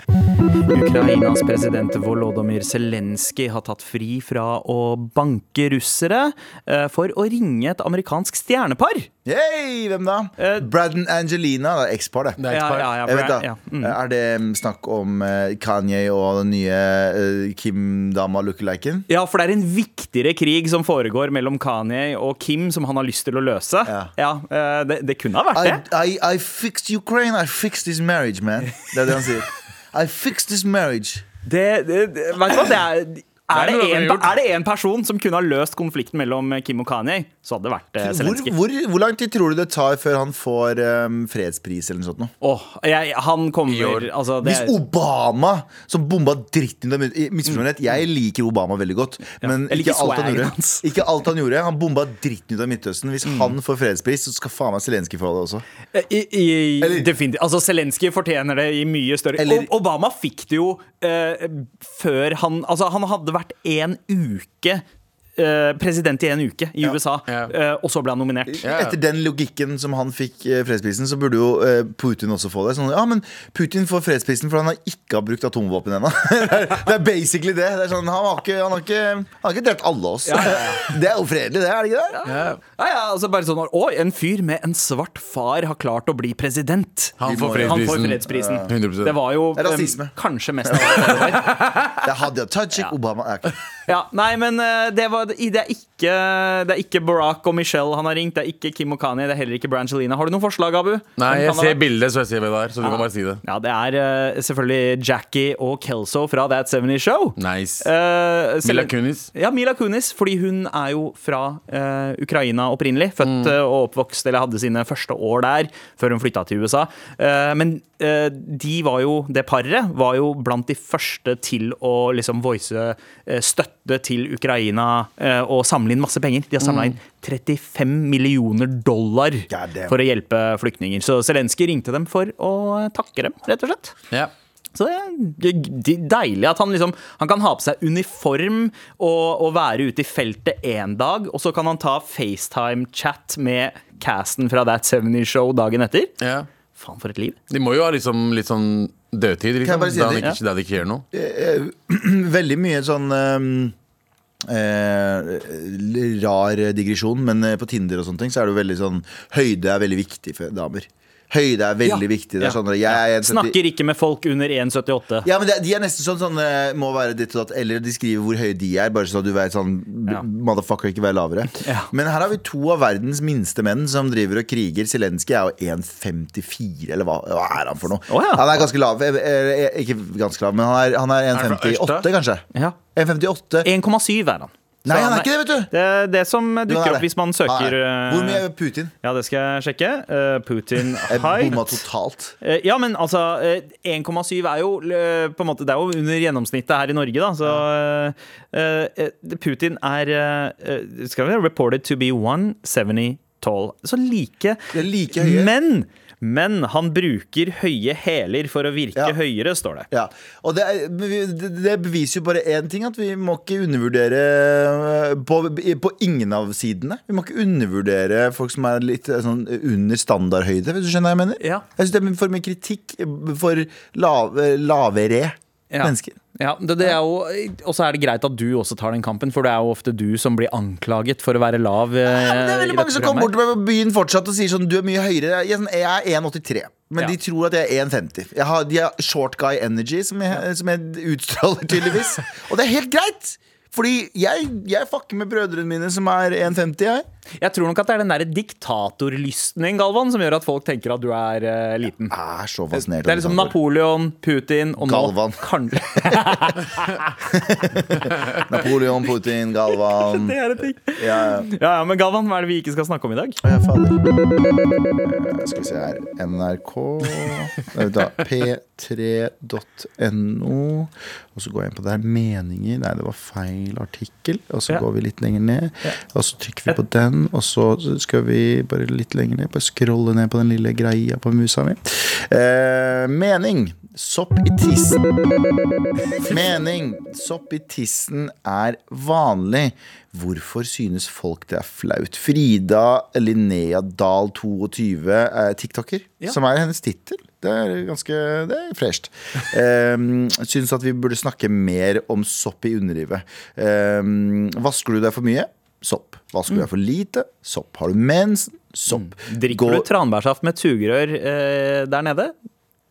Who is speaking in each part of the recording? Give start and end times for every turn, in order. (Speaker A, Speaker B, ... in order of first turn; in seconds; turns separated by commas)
Speaker A: 0.7-9.1, Speaker B: 9.2-12.5, Speaker A: 10.4-10.7, Speaker C: 12.4-12.9, Speaker A: 12.5-14.0, Speaker B: 13.0-19.1, Speaker A: 19.1-25.8, Speaker B: 23.9-24.1, Speaker B: 25.5-31.2, Speaker A: 31.4-38.6, Speaker C: 33.5-34.4, Speaker B: 38.0-42.3, Speaker A: 42.4-44.8, Speaker C: 43.7-44.1, Speaker B: 44.4-55.6, Speaker A: 49.4-50.9, Speaker A: 53.2-53.5, Speaker A: 55.9-64.8, Speaker B: 56.8-57.1, Speaker B: 59.4-59.7, Speaker A: 65.4-68.7, Speaker B: 68.5-82.2, Speaker C: 68.6-69.0, Speaker A: 80.3-80.9, Speaker A: 82.1-91.6, Speaker C: 82.3-82.6, Speaker C: 87.2-89.2, Speaker B: 87.2-88.7, Speaker B: 89.5-90.1, Speaker B: 90.7-93.5, Speaker C: 91.4-92.0, Speaker A: 93.9-101.8, Speaker C: 101.2-103.4, Speaker A: 102.8-133.9, Speaker C: 107.4-107.9, Speaker C: 108.6-109.3, Speaker C: 113.2-113.5, Speaker C: 126.6-126.9, Speaker B: 129.5-130.0, Speaker A: 134.8-146.1, Speaker C: 146.2-146.5, Speaker A: 146.8-147.4, Speaker C: 147.5-151.0, Speaker B: 149.6-150.4, Speaker B: 151.1-153.8, Speaker B: 154.4-163.6, Speaker A: 161.8-165.3, Speaker B: 165.2-183.7, Speaker A: 171.6-171.9, Speaker A: 178.1-178.6, Speaker C: 181.3-182.1, Speaker A: 183.6-188.4, Speaker B: 184.8-185.7, Speaker B: 186.7-188.9, Speaker A: 189.0-191.8, Speaker B: 191.1-192.4, Speaker A: 192.4-209.9, Speaker B: 204.7-205.5, Speaker B: 209.9-226.2, Speaker A: 221.4-221.7, Speaker A: 225.7-233.3, Speaker B: 232.1-247.1, Speaker A: 247.4-252.2, Speaker B: 252.1-253.6, Speaker A: 252.8-257.1, Speaker B: 254.8-256.4, Speaker B: 257.2-260.4, Speaker A: 259.8-263.4, Speaker B: 261.0-261.5, Speaker B: 263.4-264.0, Speaker B: 265.0-285.0, Speaker B: 286.2-309.9, Speaker A: 308.9-312.4